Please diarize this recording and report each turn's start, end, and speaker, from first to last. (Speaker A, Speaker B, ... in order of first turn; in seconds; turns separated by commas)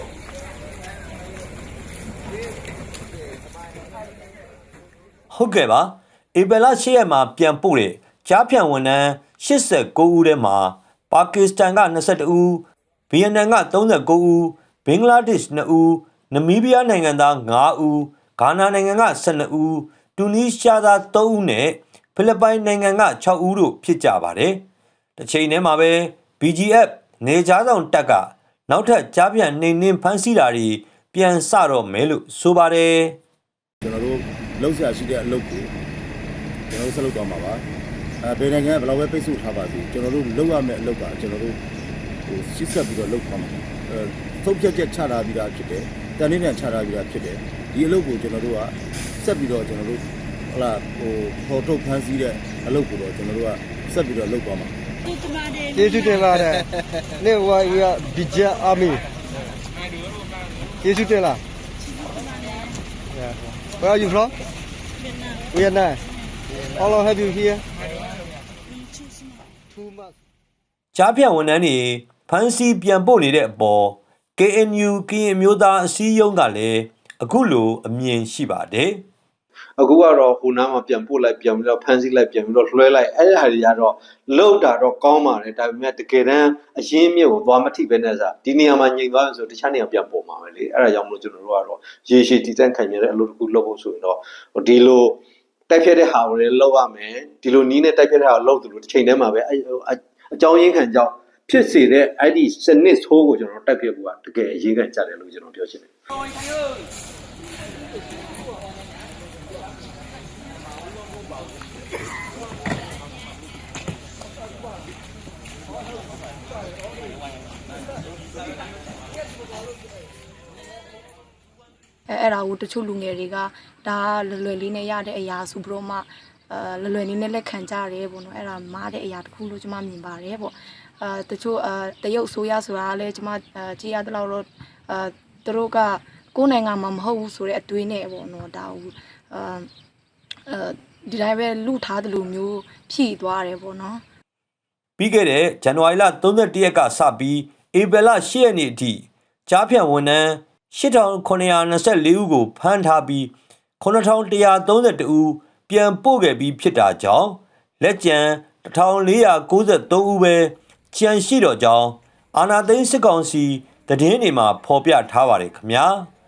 Speaker A: 5.3-24.6, Speaker A: 25.2-33.2, Speaker B: 33.8-35.7, Speaker B: 36.7-37.6, Speaker B: 38.2-41.6, Speaker B: 42.3-54.7, Speaker C: 55.7-56.7, Speaker C: 57.2-59.0, Speaker C: 60.8-61.4, Speaker C: 63.1-64.3, Speaker C: 65.5-66.0, Speaker C: 66.6-67.6, Speaker C: 69.7-70.1, Speaker A: 70.9-79.0, Speaker D: 79.8-105.9, Speaker E: 122.1-139.7, Speaker E: 140.5-144.0, Speaker A: 145.0-166.1